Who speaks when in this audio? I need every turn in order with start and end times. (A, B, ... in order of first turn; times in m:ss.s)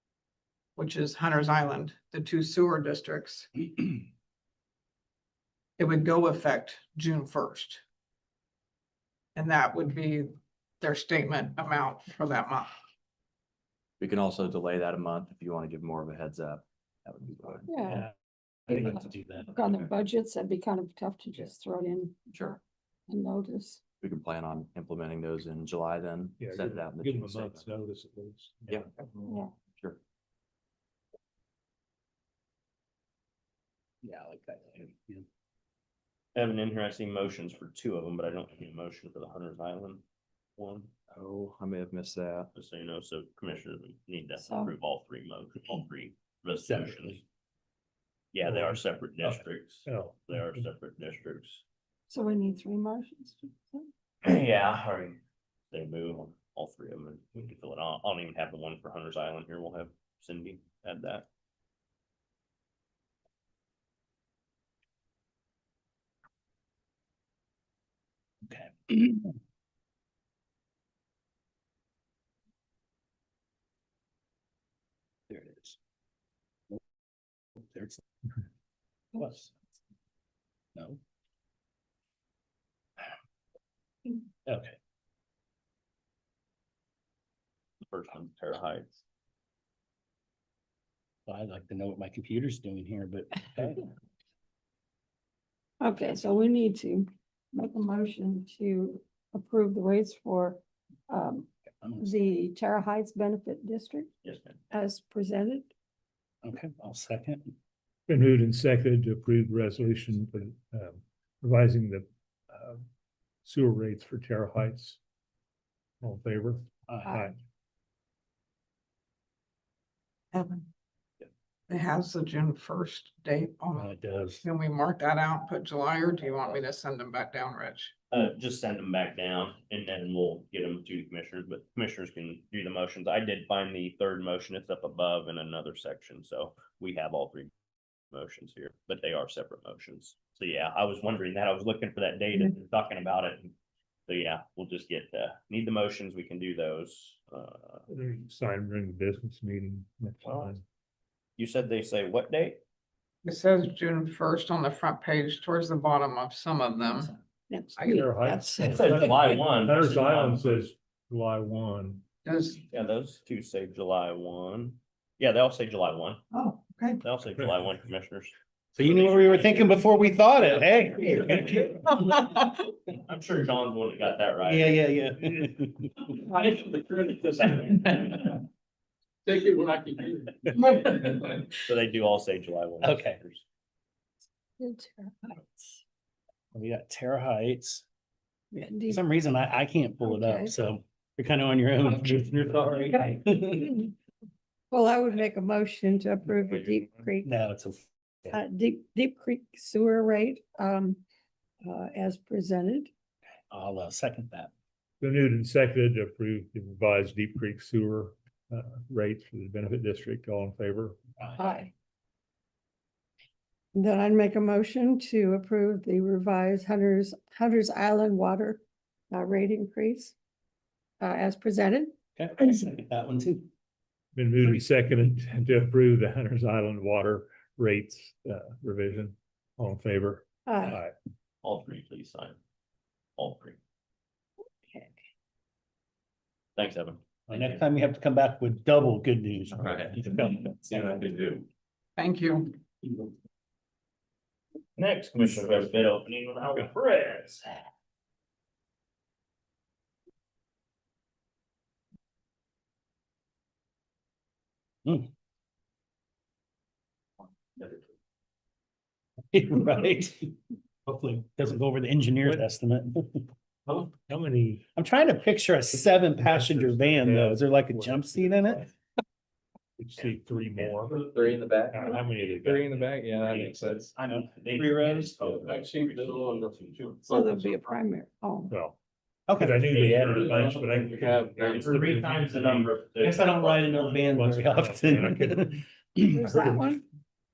0:00.8-0:03.5 A
0:05.8-0:07.8 A
0:09.4-0:12.7 A
0:14.0-0:17.6 B
0:17.7-0:18.1 C
0:17.9-0:18.1 D
0:18.7-0:19.6 D
0:18.7-0:23.8 C
0:24.0-0:27.5 B
0:26.4-0:28.9 E
0:29.3-0:29.5 C
0:34.0-0:35.2 D
0:36.4-0:40.0 F
0:40.6-0:40.9 F
0:41.2-0:42.5 B
0:42.5-0:47.2 F
0:44.4-0:44.7 C
0:46.6-0:47.2 D
0:48.3-0:51.6 F
0:48.4-0:50.5 E
0:52.1-0:53.9 C
0:54.2-0:55.2 F
0:55.7-1:01.3 F
1:08.5-1:09.3 D
1:15.3-1:15.8 D
1:17.6-1:18.0 D
1:19.2-1:19.5 D
1:20.8-1:21.0 D
1:24.5-1:24.8 D
1:27.8-1:29.0 F
1:31.3-1:33.9 D
1:35.8-1:44.1 C
1:41.8-1:42.1 D
1:44.2-1:44.6 F
1:44.7-1:45.7 C
1:46.4-1:47.5 D
1:48.1-1:52.8 E
1:53.4-1:55.0 E
1:56.0-1:57.4 E
1:56.9-1:57.2 D
2:00.3-2:00.7 A
2:01.7-2:08.0 A
2:03.7-2:04.4 D
2:08.1-2:17.5 F
2:18.1-2:23.5 F
2:24.1-2:27.8 F
2:27.9-2:30.6 E
2:30.2-2:30.6 F
2:31.4-2:32.6 F
2:33.2-2:37.1 A
2:37.5-2:39.2 C
2:37.8-2:38.0 A
2:37.8-2:42.0 E
2:38.7-2:40.6 F
2:42.2-2:42.6 A
2:42.7-2:46.2 F
2:46.3-2:47.0 A
2:47.0-2:49.8 F
2:48.8-2:51.6 D
2:50.5-2:51.9 F
2:51.8-2:52.5 A
2:53.0-2:55.4 F
2:54.4-2:55.9 D
2:56.0-2:58.4 F
2:59.3-3:01.5 G
3:01.6-3:03.4 F
3:02.8-3:03.2 D
3:04.6-3:05.8 C
3:06.6-3:07.8 D
3:08.5-3:09.0 C
3:08.9-3:13.9 D
3:10.0-3:10.5 C
3:14.7-3:17.3 C
3:17.2-3:18.3 D
3:18.3-3:21.0 C
3:21.6-3:22.9 C
3:23.5-3:24.5 D
3:25.0-3:31.0 E
3:31.4-3:31.7 C
3:33.8-3:40.2 C
3:41.0-3:42.0 C
3:42.2-3:43.5 D
3:44.2-3:50.9 E
3:50.5-3:50.8 C
3:51.4-3:52.4 F
3:53.2-3:53.6 F
3:56.6-3:57.6 F
3:57.3-4:00.3 D
3:59.6-4:01.4 F
4:02.0-4:02.6 A
4:04.8-4:07.6 F
4:19.3-4:20.4 D
4:20.9-4:23.3 D
4:23.8-4:24.6 E
4:24.8-4:28.7 D
4:26.2-4:28.5 E
4:29.8-4:31.0 E
4:30.0-4:30.8 F
4:30.9-4:34.0 G
4:31.7-4:32.9 E
4:34.0-4:37.0 F
4:34.1-4:35.1 D
4:34.9-4:37.7 G
4:37.1-4:38.5 C
4:38.5-4:38.8 E
4:39.3-4:39.7 D
4:39.4-4:42.6 E
4:39.7-4:41.9 G
4:41.4-4:44.1 F
4:43.0-4:46.2 D
4:44.1-4:46.8 E
4:46.1-4:46.8 C